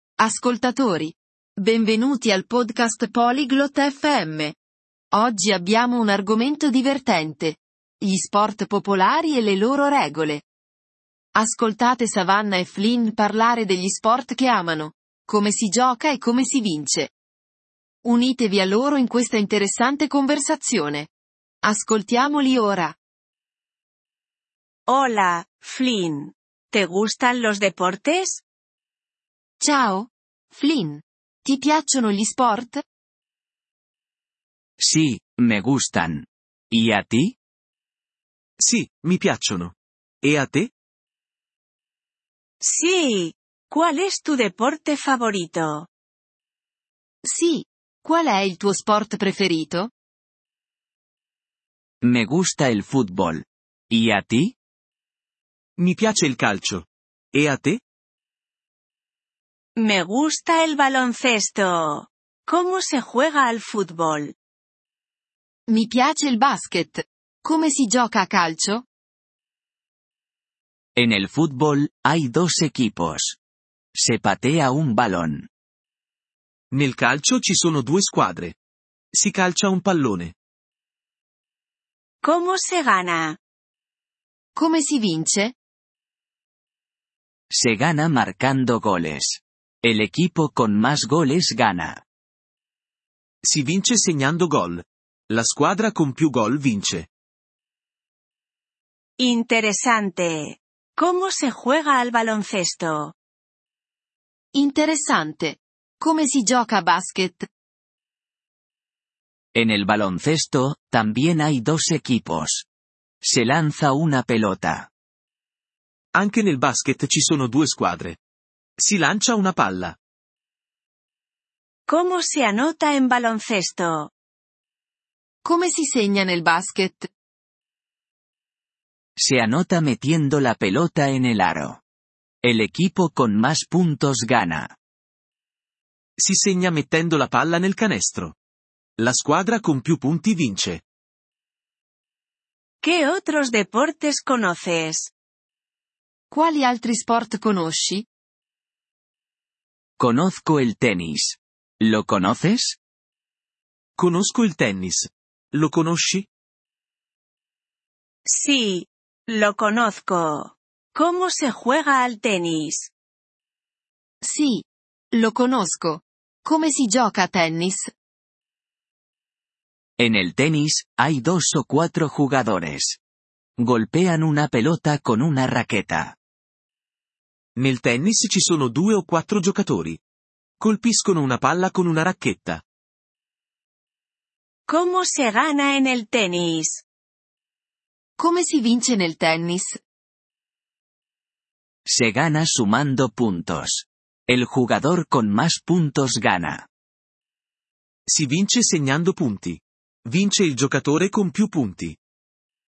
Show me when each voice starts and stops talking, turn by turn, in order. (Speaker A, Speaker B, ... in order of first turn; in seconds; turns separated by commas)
Speaker A: 0.2-4.5, Speaker A: 5.1-10.4, Speaker A: 11.4-17.1, Speaker A: 18.0-21.1, Speaker A: 21.6-23.0, Speaker B: 24.9-28.4, Speaker A: 29.6-32.8, Speaker C: 34.8-37.4, Speaker D: 38.6-40.7, Speaker B: 42.6-45.9, Speaker A: 47.2-49.9, Speaker C: 52.0-54.5, Speaker D: 55.8-57.8, Speaker B: 59.8-64.3, Speaker A: 65.7-68.9, Speaker C: 71.0-73.4, Speaker C: 73.9-75.5, Speaker D: 76.7-78.6, Speaker D: 79.1-80.3, Speaker B: 82.2-83.4, Speaker A: 84.6-85.6, Speaker C: 87.5-92.0, Speaker D: 93.4-97.1, Speaker B: 99.2-103.1, Speaker A: 104.5-107.5, Speaker C: 109.5-112.7, Speaker C: 113.2-114.9, Speaker D: 116.1-118.2, Speaker D: 118.8-120.0, Speaker B: 121.9-124.1, Speaker A: 125.4-127.1, Speaker C: 129.2-131.8, Speaker C: 132.4-134.8, Speaker D: 136.2-138.3, Speaker D: 139.0-140.8, Speaker B: 142.8-145.1, Speaker A: 146.3-148.1, Speaker C: 150.0-152.8, Speaker D: 154.0-156.3, Speaker B: 158.2-162.9, Speaker A: 164.2-167.9, Speaker C: 170.0-173.0, Speaker C: 173.6-176.2, Speaker D: 177.6-180.0, Speaker D: 180.6-182.6, Speaker B: 184.7-186.8, Speaker A: 188.2-189.8, Speaker C: 191.8-196.7, Speaker D: 198.1-202.0